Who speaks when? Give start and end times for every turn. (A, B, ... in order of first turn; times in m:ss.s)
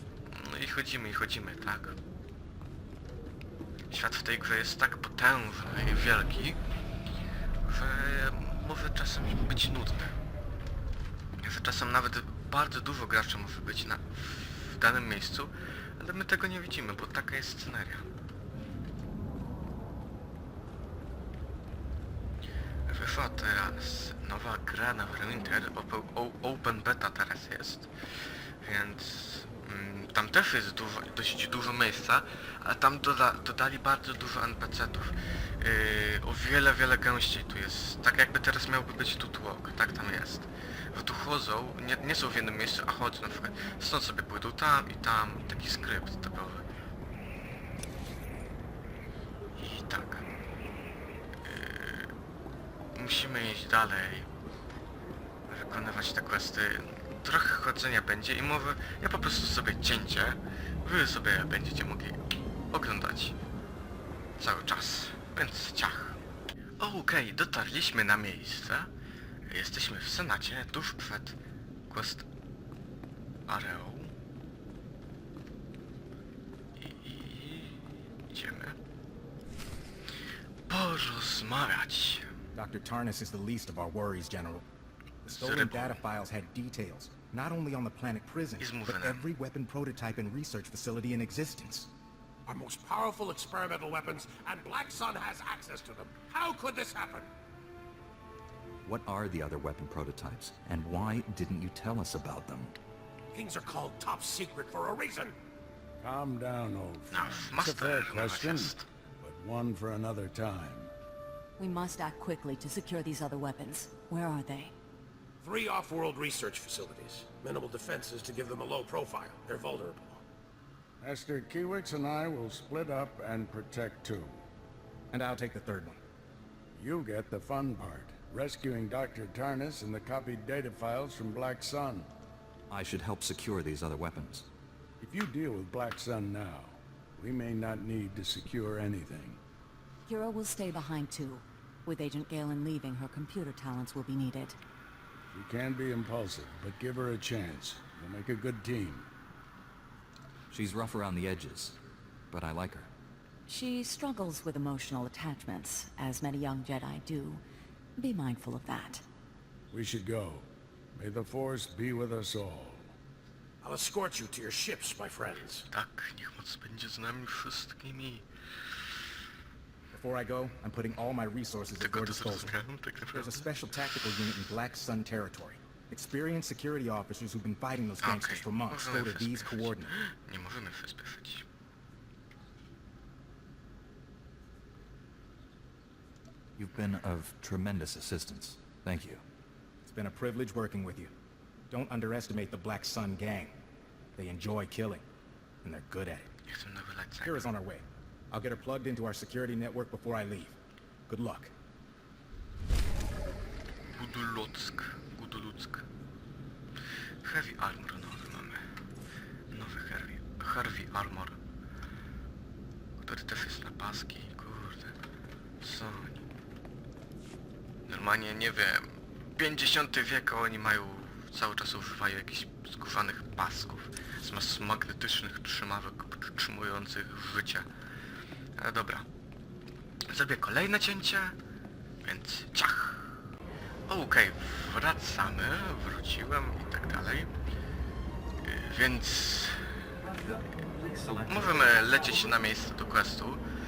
0:00.2-0:02.0 A
0:03.9-0:06.6 A
0:07.6-0:10.2 A
0:11.4-0:18.1 A
0:22.9-0:27.9 A
0:28.6-0:46.6 A
0:49.5-0:50.3 A
0:51.4-0:52.1 A
0:52.9-0:54.3 A
0:55.5-1:03.4 A
1:04.4-1:06.2 A
1:06.8-1:08.9 A
1:09.4-1:11.4 A
1:11.9-1:12.2 A
1:13.5-1:14.1 A
1:16.8-1:18.8 A
1:20.7-1:22.3 A
1:22.5-1:24.6 B
1:25.2-1:31.9 B
1:25.3-1:26.0 A
1:28.6-1:29.3 A
1:32.4-1:37.3 C
1:38.8-1:42.8 D
1:43.3-1:45.4 C
1:46.0-1:50.9 E
1:47.1-1:48.8 A
1:51.6-1:54.7 F
1:55.4-2:00.2 C
2:01.0-2:04.4 E
2:05.1-2:06.0 B
2:06.7-2:12.1 E
2:12.7-2:14.5 D
2:15.0-2:19.4 E
2:20.1-2:24.6 F
2:25.3-2:29.1 E
2:30.5-2:31.8 D
2:32.3-2:32.9 D
2:33.5-2:37.4 F
2:38.0-2:39.0 F
2:39.7-2:42.9 E
2:43.6-2:45.7 C
2:45.7-2:48.2 A
2:49.9-2:52.6 B
2:51.8-2:53.5 A
2:53.1-2:59.9 B
2:58.0-3:01.4 A
3:06.6-3:09.2 D
3:09.8-3:11.1 B
3:11.7-3:13.6 B
3:14.2-3:15.0 B
3:15.6-3:16.3 B
3:16.4-3:17.5 A
3:17.2-3:20.6 B
3:21.1-3:21.5 B
3:23.9-3:25.8 A
3:27.2-3:28.7 A
3:29.5-3:31.4 A
3:33.0-3:35.0 A
3:35.6-3:36.3 A
3:37.9-3:47.7 A
3:48.6-3:49.1 A
3:50.1-3:51.4 A
3:52.0-3:53.2 A
3:53.9-3:57.3 A
3:58.4-3:59.6 A
4:01.2-4:03.4 A